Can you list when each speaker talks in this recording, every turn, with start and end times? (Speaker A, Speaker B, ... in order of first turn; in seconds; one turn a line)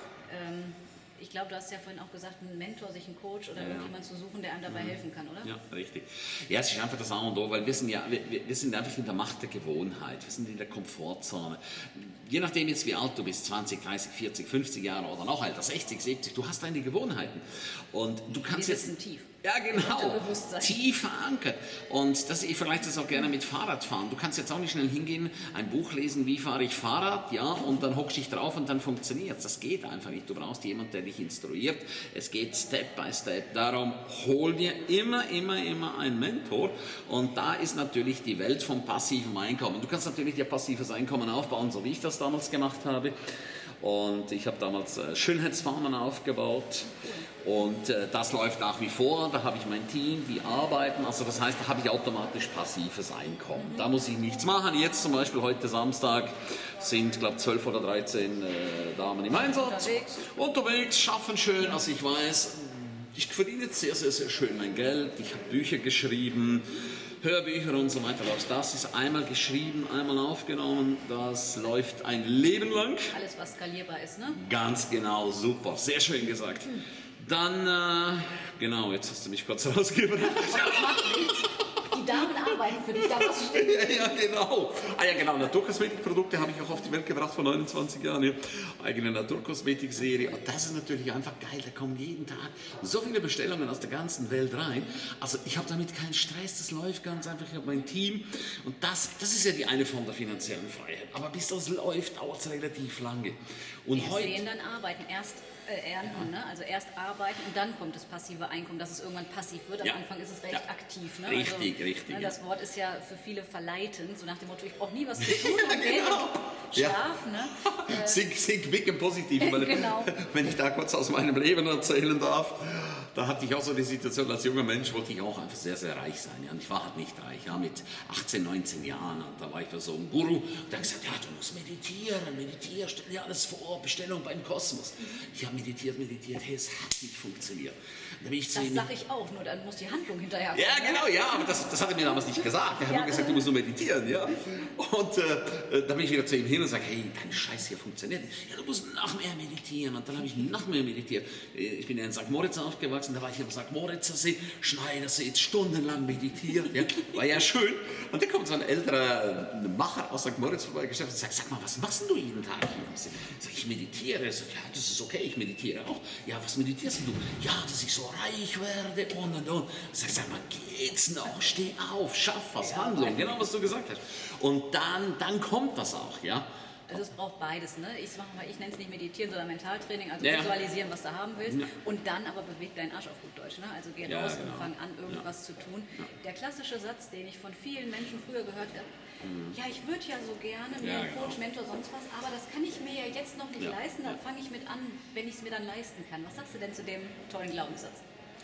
Speaker A: 0.2-5.5
Speaker B: 3.6-3.9
Speaker B: 4.7-73.1
Speaker A: 18.3-20.8
Speaker A: 53.5-53.9
Speaker A: 59.4-60.4
Speaker A: 73.1-74.4
Speaker B: 74.3-81.5
Speaker A: 80.3-84.1
Speaker B: 82.1-104.4
Speaker A: 103.9-118.2
Speaker B: 111.2-112.3
Speaker B: 115.2-117.0
Speaker B: 117.5-138.9
Speaker A: 119.4-120.1
Speaker A: 138.5-141.4
Speaker B: 140.5-177.0
Speaker A: 142.8-143.4
Speaker A: 172.6-173.3
Speaker A: 176.9-188.9
Speaker B: 180.2-180.6
Speaker B: 184.0-185.2
Speaker B: 189.2-189.5
Speaker A: 189.5-198.0
Speaker B: 190.8-191.4
Speaker B: 193.6-194.1